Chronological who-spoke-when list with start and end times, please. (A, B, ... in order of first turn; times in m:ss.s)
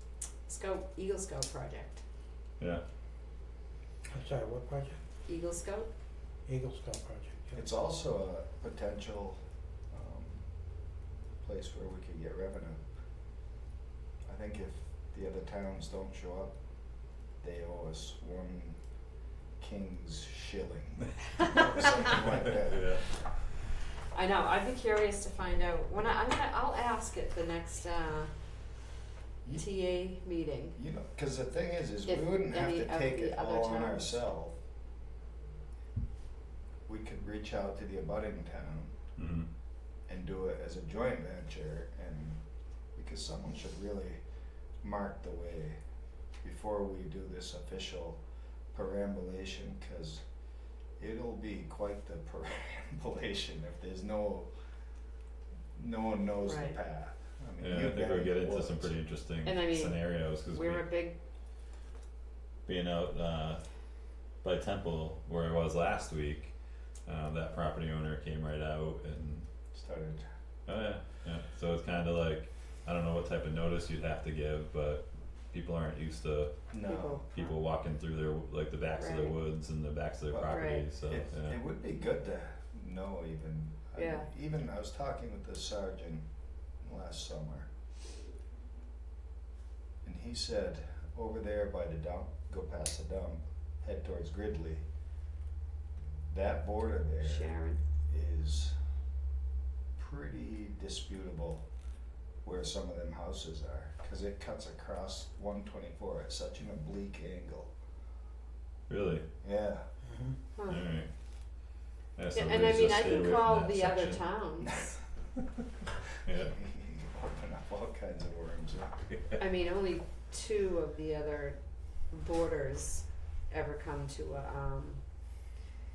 0:00.5-0:02.0 A
0:04.1-0:05.0 B
0:05.2-0:05.9 A
0:06.4-0:07.6 B
0:07.5-0:09.4 C
0:09.9-0:10.4 C
0:11.4-0:12.8 C
0:14.3-0:16.5 C
0:17.4-0:18.8 C
0:19.6-0:23.1 C
0:22.6-0:23.0 D
0:24.1-0:28.3 A
0:29.5-0:30.8 A
0:30.8-0:34.6 C
0:32.0-0:34.1 A
0:36.9-0:38.9 C
0:39.2-0:39.5 D
0:40.1-0:42.4 C
0:43.0-0:44.2 C
0:44.8-0:45.8 C
0:46.4-0:48.2 C
0:48.7-0:50.2 C
0:51.0-0:54.5 C
0:55.7-0:58.9 C
0:56.4-0:56.8 A
0:57.6-1:00.9 D
0:59.4-1:01.2 A
1:02.6-1:03.6 D
1:04.4-1:06.5 D
1:07.1-1:09.4 D
1:09.7-1:10.3 C
1:10.7-1:16.5 D
1:16.7-1:17.2 C
1:16.8-1:17.5 A
1:17.3-1:21.6 D
1:19.0-1:19.3 A
1:20.3-1:26.2 C
1:20.5-1:20.8 A
1:24.0-1:24.3 A
1:26.8-1:27.7 C
1:30.0-1:34.8 C
1:36.3-1:37.5 C
1:37.2-1:37.8 A
1:38.1-1:38.8 C
1:40.0-1:41.6 C
1:42.4-1:47.7 C
1:48.9-1:49.2 D
1:49.4-1:49.8 C
1:50.6-1:51.1 D
1:52.2-1:54.2 D
1:52.3-1:55.0 A
1:56.2-1:56.5 D
1:56.5-1:59.0 C
1:59.4-2:01.6 A
2:02.1-2:05.0 A